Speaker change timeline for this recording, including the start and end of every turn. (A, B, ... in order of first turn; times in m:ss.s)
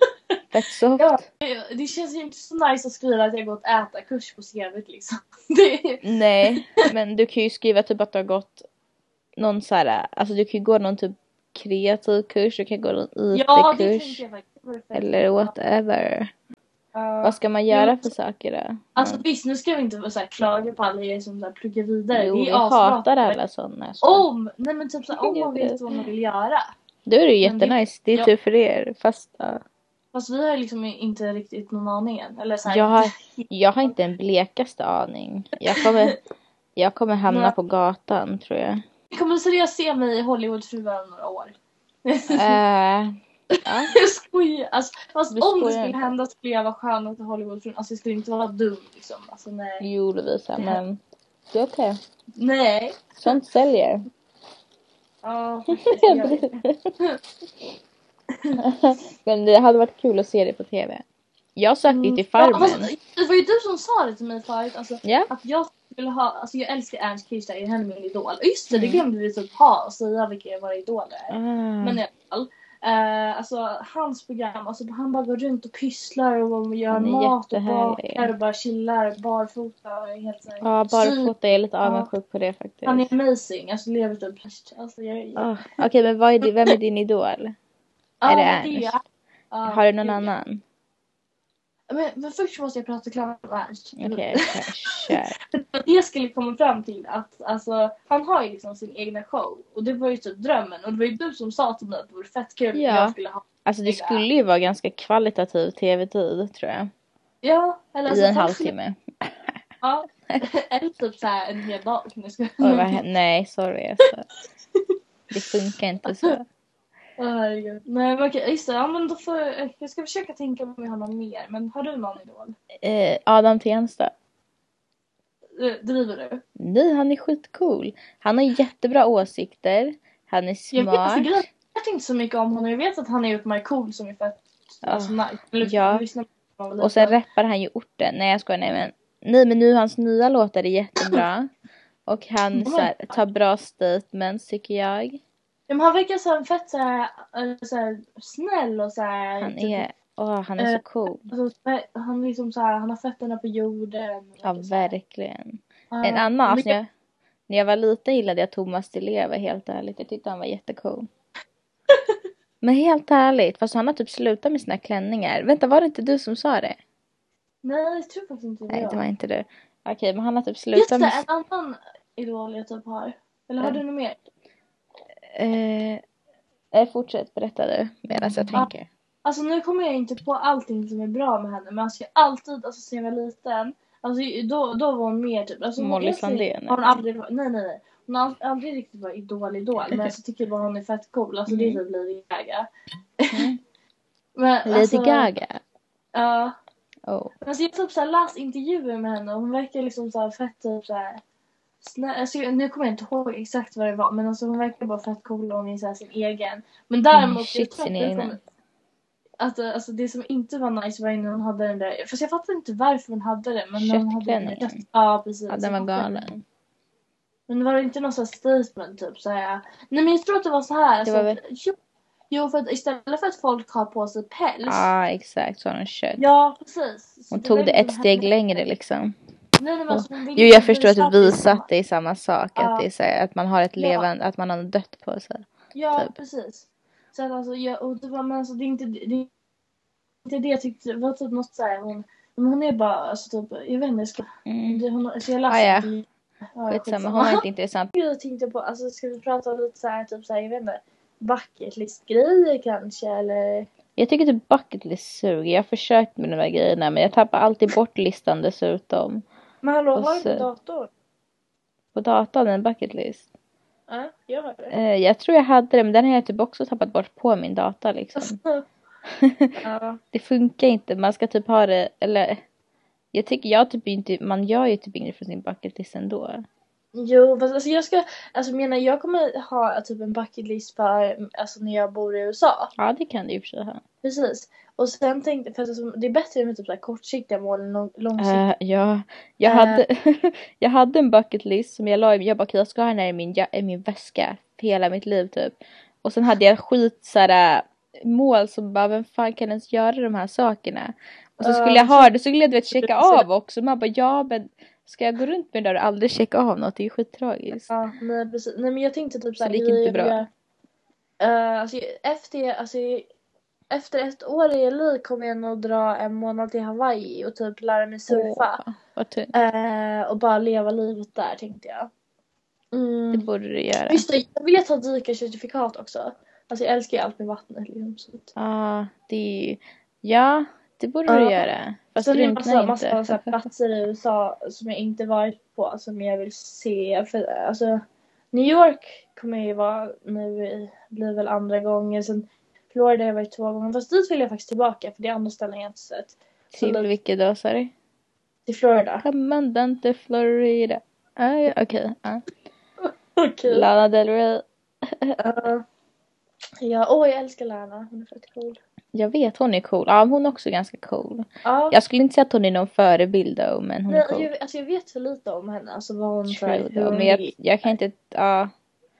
0:00.5-0:01.2 A
0:01.0-0:06.8 B
0:06.0-0:08.6 A
0:09.4-0:14.2 A
0:13.3-0:15.5 B
0:14.9-0:16.3 A
0:16.9-0:18.1 B
0:17.2-0:19.2 A
0:19.0-0:23.4 B
0:22.1-0:24.3 A
0:24.0-0:26.7 B
0:25.2-0:25.8 A
0:27.1-0:29.6 A
0:27.4-0:28.3 B
0:30.1-0:33.5 B
0:32.7-0:36.2 A
0:35.8-0:36.2 B
0:36.8-0:38.8 A
0:37.3-0:37.6 B
0:39.1-0:42.6 B
0:42.3-0:43.9 A
0:43.5-0:49.8 B
0:45.3-0:46.1 A
0:49.8-0:51.0 A
0:51.5-0:52.0 A
0:52.4-0:53.3 B
0:53.2-0:54.1 A
0:55.2-0:57.2 B
0:55.9-0:56.9 A
0:58.6-1:01.0 A
1:01.6-1:02.9 A
1:01.9-1:21.3 B
1:05.0-1:05.3 A
1:08.7-1:09.0 A
1:11.3-1:12.0 A
1:16.9-1:18.3 A
1:20.6-1:23.1 A
1:21.8-1:22.1 B
1:22.8-1:25.8 B
1:25.4-1:27.6 A
1:28.2-1:30.3 B
1:28.3-1:29.0 A
1:29.7-1:30.6 A
1:31.9-1:44.2 B
1:34.0-1:35.3 A
1:42.8-1:46.9 A
1:47.4-1:48.7 B
1:48.1-1:49.6 A
1:49.8-1:53.0 B
1:52.6-1:54.3 A
1:55.3-1:56.4 A
1:57.2-2:02.6 B
2:02.8-2:04.1 A
2:05.6-2:06.4 B
2:06.6-2:11.3 A
2:10.7-2:17.2 B
2:14.8-2:16.0 A
2:16.8-2:21.5 A
2:22.1-2:25.2 A
2:22.5-2:23.2 B
2:25.7-2:29.8 B
2:29.4-2:31.3 A
2:30.6-2:34.9 B
2:34.4-2:36.9 A
2:35.9-2:36.8 B
2:37.5-2:41.1 A
2:41.9-2:42.2 B
2:42.6-2:46.8 A
2:47.6-2:49.0 B
2:48.7-2:51.2 A
2:50.7-2:54.2 B
2:55.3-2:56.0 A
2:56.7-2:58.9 A
2:59.2-3:12.7 B
3:05.8-3:07.0 A
3:11.5-3:11.8 A
3:13.2-3:13.5 B
3:13.3-3:13.6 A
3:14.4-3:15.3 B
3:14.7-3:15.6 A
3:16.2-3:16.5 B
3:17.1-3:17.3 A
3:17.4-3:21.2 B
3:21.8-3:28.4 B
3:27.1-3:28.4 A
3:29.4-3:36.2 B
3:33.8-3:34.8 A
3:35.5-3:36.4 A
3:37.5-3:41.8 B
3:41.1-3:41.4 A
3:42.3-3:44.9 B
3:44.7-3:46.2 A
3:46.2-3:48.6 B
3:47.3-3:49.2 A
3:49.6-3:51.7 B
3:49.9-3:56.1 A
3:52.6-3:52.9 B
3:53.8-3:54.1 B
3:55.7-3:59.3 B
4:00.2-4:06.1 B
4:04.4-4:04.8 A
4:05.5-4:05.9 A
4:06.6-4:13.7 B
4:06.7-4:07.9 A
4:14.0-4:19.2 A
4:19.6-4:20.9 B
4:19.9-4:20.4 A
4:21.9-4:23.3 A
4:23.9-4:24.8 B
4:24.7-4:28.4 A
4:28.2-4:28.6 B
4:29.1-4:29.6 A
4:29.6-4:30.0 B
4:30.1-4:32.4 A
4:33.1-4:36.4 A
4:36.9-4:42.7 B
4:42.8-4:43.8 A
4:44.0-4:48.4 B
4:48.2-5:07.7 A
4:49.4-4:49.8 B
5:01.4-5:02.1 B
5:02.7-5:03.2 B
5:07.7-5:10.3 B
5:09.4-5:10.2 A
5:11.2-5:13.1 B
5:13.7-5:18.6 B
5:18.1-5:19.3 A
5:19.3-5:21.9 B
5:22.7-5:23.3 B
5:23.1-5:24.0 A
5:23.9-5:28.3 B
5:28.4-5:33.2 A
5:31.1-5:31.4 B
5:32.0-5:46.9 B
5:46.5-5:47.7 A
5:48.4-5:49.0 B
5:49.0-5:52.2 A
5:52.8-5:53.7 B
5:53.5-5:55.2 A
5:55.2-5:55.6 B
5:56.6-5:58.6 B
5:58.9-6:04.3 A
6:01.4-6:01.8 B
6:03.9-6:07.7 B
6:06.3-6:08.5 A